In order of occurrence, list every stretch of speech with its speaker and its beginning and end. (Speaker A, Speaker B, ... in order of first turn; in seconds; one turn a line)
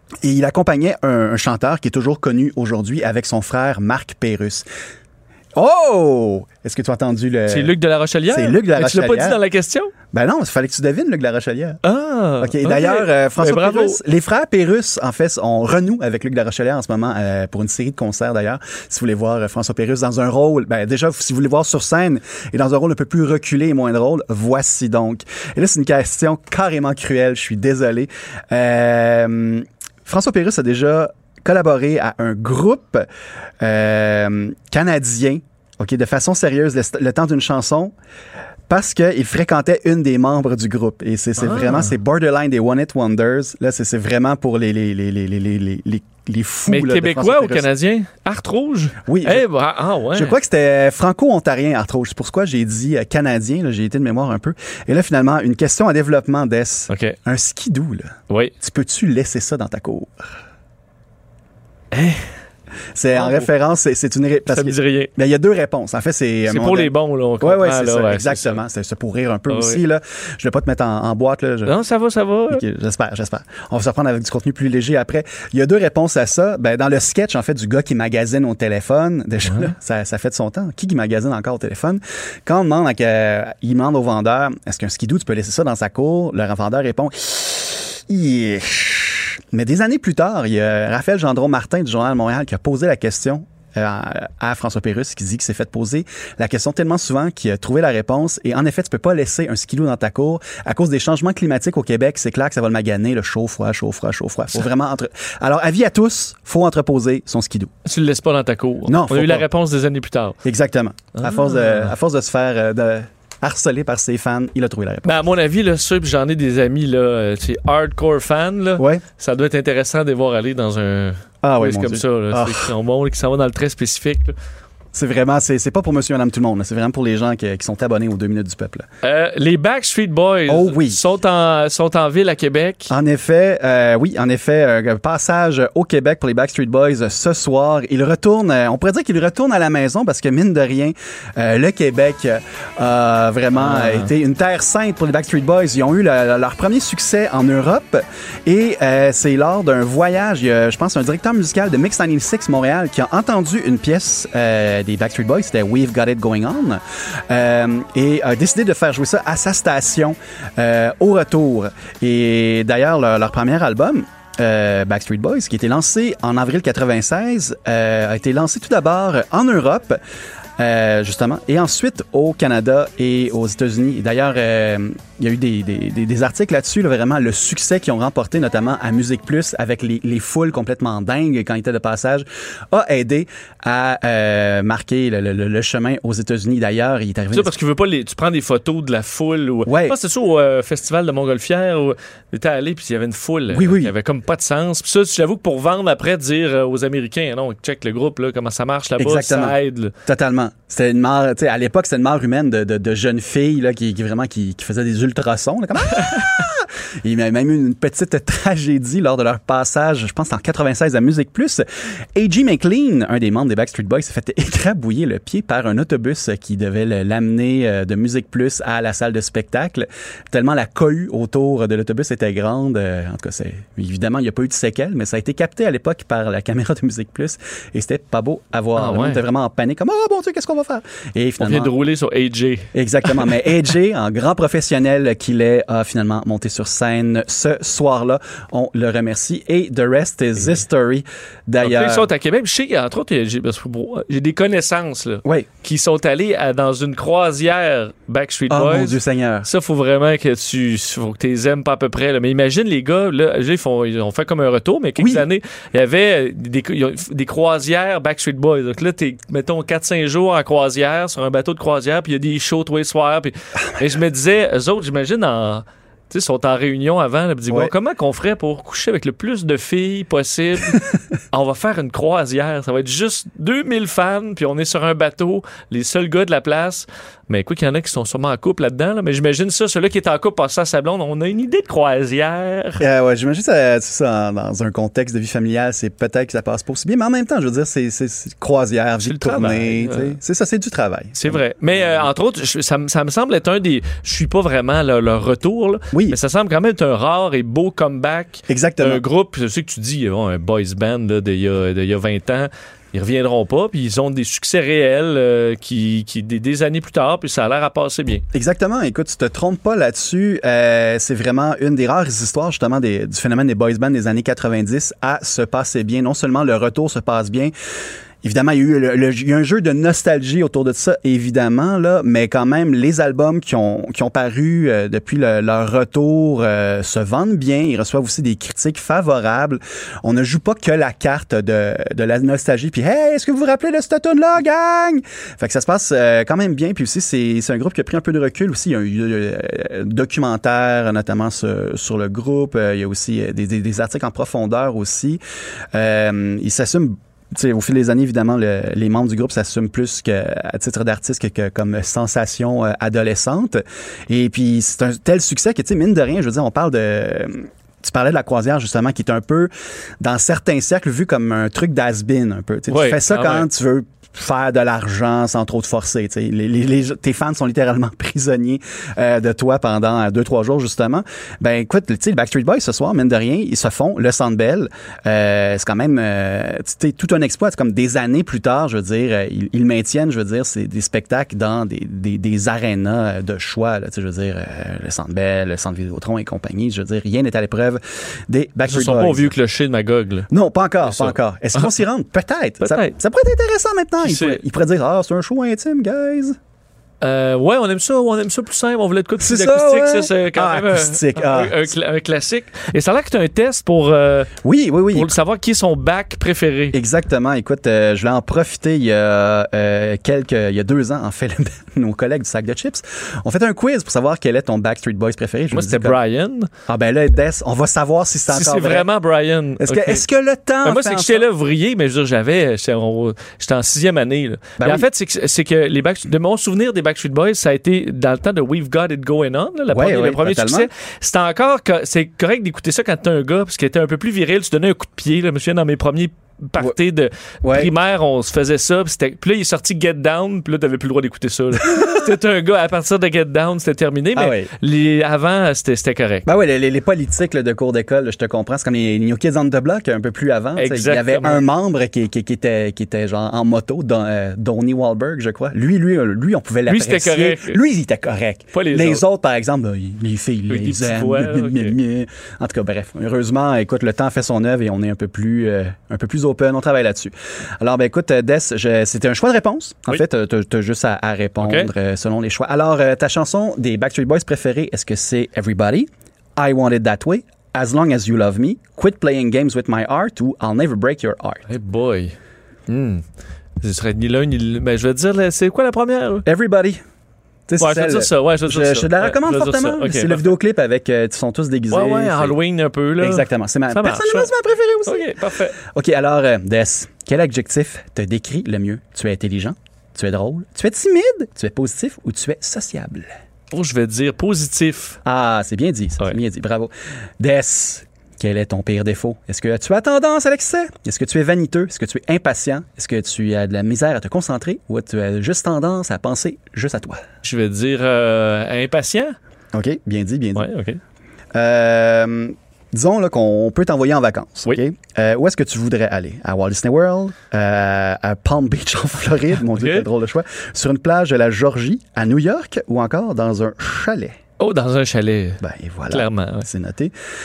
Speaker A: 0.2-4.7
Speaker A: 5.6-9.4
Speaker B: 7.5-9.9
Speaker A: 10.1-11.8
Speaker B: 11.8-14.0
Speaker A: 12.4-33.1
Speaker A: 33.6-37.9
Speaker A: 38.7-47.7
Speaker B: 41.4-42.0
Speaker B: 46.7-50.4
Speaker A: 49.1-49.5
Speaker A: 50.1-60.3
Speaker B: 56.9-57.2
Speaker B: 61.9-62.3
Speaker A: 63.0-71.8
Speaker B: 63.1-63.5
Speaker B: 64.5-65.1
Speaker B: 66.5-68.6
Speaker B: 69.5-69.8
Speaker B: 71.7-72.6
Speaker A: 72.5-107.7
Speaker B: 79.5-79.7
Speaker B: 107.8-110.4
Speaker A: 108.8-109.5
Speaker A: 110.4-115.2
Speaker B: 111.2-111.9
Speaker B: 115.0-124.4
Speaker A: 118.8-119.0
Speaker A: 121.4-122.8
Speaker A: 124.9-128.8
Speaker B: 129.0-132.9
Speaker A: 130.5-131.0
Speaker A: 132.9-170.0
Speaker B: 143.6-144.1
Speaker A: 170.6-187.6
Speaker B: 187.3-199.9
Speaker A: 189.7-190.0
Speaker A: 193.5-193.9
Speaker A: 199.0-211.6
Speaker B: 205.9-206.3
Speaker A: 212.2-231.7
Speaker B: 228.8-229.2
Speaker B: 231.4-233.4
Speaker A: 232.7-242.1
Speaker B: 241.6-282.9
Speaker A: 248.5-249.5
Speaker A: 255.0-255.2
Speaker A: 282.8-292.1
Speaker B: 289.0-290.2
Speaker B: 291.1-308.2
Speaker A: 295.9-296.2
Speaker A: 298.5-299.0
Speaker A: 308.3-317.5
Speaker A: 318.2-345.2
Speaker A: 345.7-359.5
Speaker A: 360.0-389.4
Speaker B: 362.7-363.5
Speaker B: 388.7-390.3
Speaker A: 390.3-396.4
Speaker B: 390.9-391.7
Speaker B: 392.6-392.9
Speaker B: 394.0-394.4
Speaker B: 397.0-404.3
Speaker A: 399.2-401.7
Speaker A: 404.4-405.2
Speaker B: 404.9-406.8
Speaker A: 406.7-416.0
Speaker B: 415.5-416.5
Speaker A: 416.7-418.9
Speaker B: 418.3-420.1
Speaker A: 419.6-421.3
Speaker B: 420.6-446.3
Speaker A: 424.6-424.9
Speaker A: 429.7-430.7
Speaker A: 437.4-437.7
Speaker A: 441.7-442.0
Speaker A: 444.2-444.5
Speaker A: 446.3-481.4
Speaker B: 450.6-451.4
Speaker B: 456.7-457.6
Speaker B: 458.5-459.0
Speaker B: 460.5-461.8
Speaker B: 471.4-471.7
Speaker B: 481.5-482.1
Speaker B: 482.7-483.1
Speaker B: 483.6-486.3
Speaker A: 486.3-486.8
Speaker A: 487.5-492.4
Speaker B: 487.6-490.4
Speaker B: 491.7-494.3
Speaker A: 493.0-503.1
Speaker B: 494.9-495.6
Speaker B: 503.5-505.0
Speaker A: 505.1-517.0
Speaker B: 517.2-519.1
Speaker A: 519.5-520.5
Speaker B: 520.4-520.8
Speaker A: 521.4-534.1
Speaker B: 529.5-529.9
Speaker B: 534.4-536.5
Speaker A: 535.4-536.9